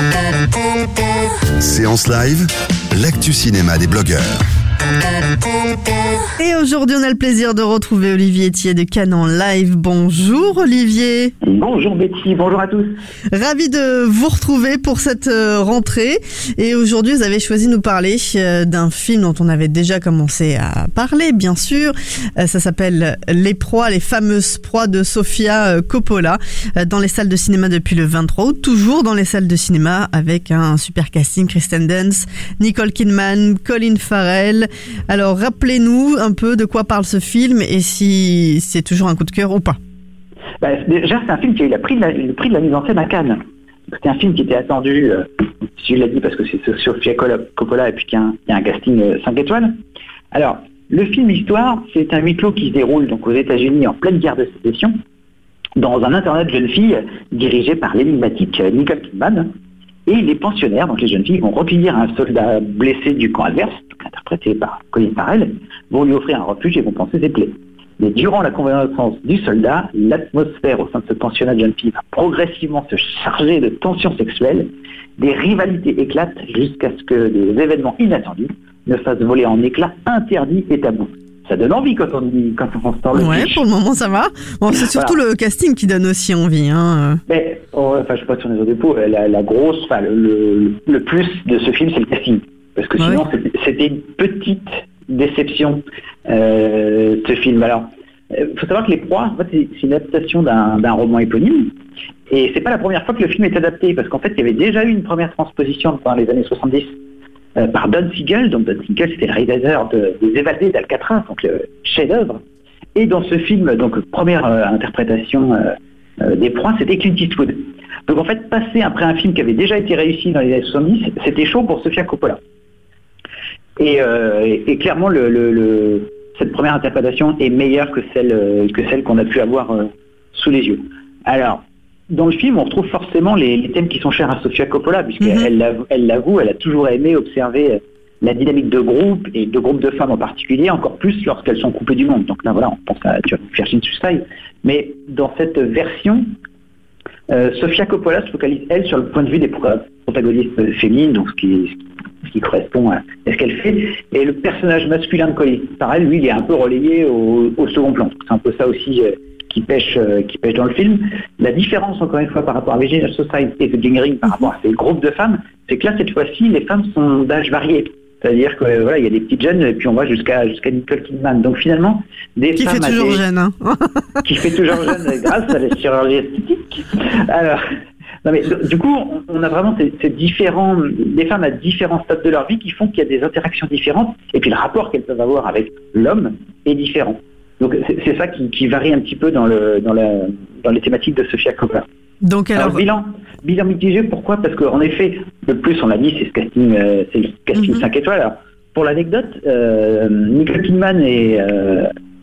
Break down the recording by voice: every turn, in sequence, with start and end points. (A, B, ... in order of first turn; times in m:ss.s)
0:01.6-0:04.4 A
0:06.4-0:11.3 B
0:11.4-0:12.9 C
0:13.3-0:39.8 B
0:40.6-0:43.4 C
0:43.9-0:45.2 C
0:45.8-0:49.7 C
0:50.3-0:54.9 C
0:55.8-0:59.5 C
1:00.0-1:23.6 C
1:23.1-1:27.2 B
1:24.8-1:25.2 C
1:27.3-1:41.7 C
1:42.3-1:46.9 C
1:47.6-1:52.4 C
1:52.9-2:02.4 C
2:03.8-2:26.2 C
2:15.2-2:15.5 B
2:27.3-2:53.2 C
2:52.6-2:54.2 B
2:54.2-2:57.6 C
2:58.2-3:11.8 C
3:12.2-3:12.8 B
3:12.5-3:21.9 C
3:17.6-3:17.8 B